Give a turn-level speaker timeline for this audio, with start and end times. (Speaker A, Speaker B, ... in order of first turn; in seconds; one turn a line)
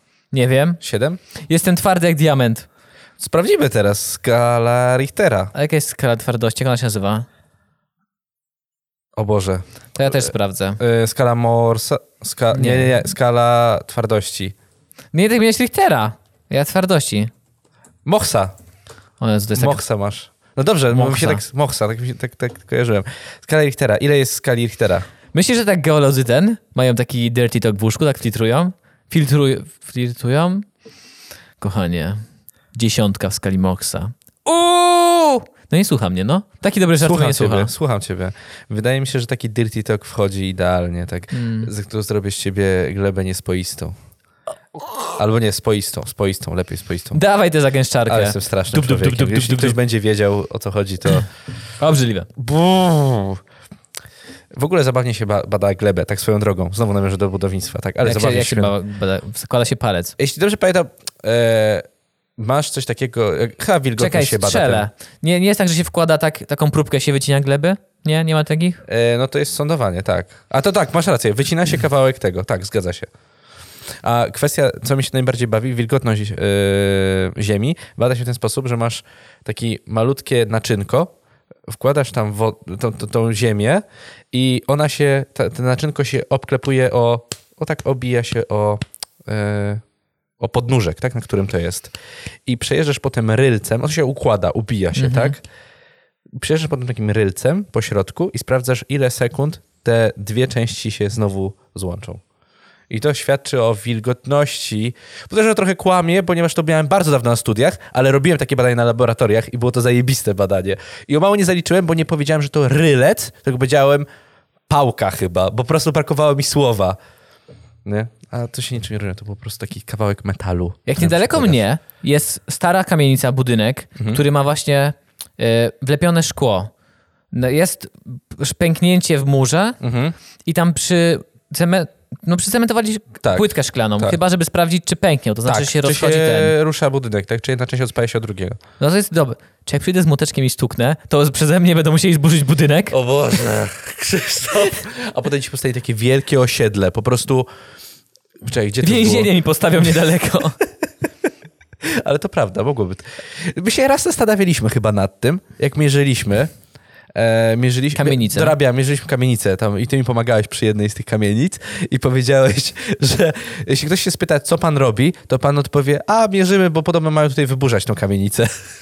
Speaker A: 0.3-0.8
Speaker B: 0.8-1.2
Speaker A: 1.5-2.7
Speaker B: 3.2-5.5
Speaker A: 5.5-7.2
Speaker B: 9.2-14.5
Speaker A: 9.9-10.8
Speaker A: 12.5-13.0
Speaker A: 15.1-17.3
Speaker B: 18.0-18.5
Speaker A: 19.2-19.8
Speaker B: 19.5-25.1
Speaker A: 20.9-21.4
Speaker A: 25.3-30.6
Speaker A: 31.6-32.2
Speaker A: 32.7-37.7
Speaker B: 37.0-43.9
Speaker A: 41.3-41.7
Speaker B: 45.1-47.2
Speaker A: 47.1-49.8
Speaker B: 48.1-51.3
Speaker A: 51.8-52.3
Speaker B: 52.4-53.4
Speaker B: 54.5-58.7
Speaker A: 58.0-60.1
Speaker B: 60.2-61.9
Speaker B: 62.4-64.9
Speaker A: 64.0-68.8
Speaker B: 68.8-73.1
Speaker B: 74.0-81.1
Speaker B: 81.7-89.8
Speaker B: 90.4-91.9
Speaker B: 92.5-95.4
Speaker A: 95.0-95.4
Speaker B: 96.3-102.2
Speaker B: 102.9-114.1
Speaker B: 114.7-117.0
Speaker B: 117.8-121.6
Speaker A: 120.9-126.7
Speaker A: 127.3-129.8
Speaker B: 129.8-130.2
Speaker A: 130.4-136.5
Speaker B: 133.2-134.2
Speaker B: 135.4-138.6
Speaker A: 138.8-143.0
Speaker B: 142.9-147.5
Speaker B: 148.4-149.3
Speaker A: 148.8-150.6
Speaker B: 151.8-156.5
Speaker B: 157.1-168.5
Speaker A: 157.9-158.6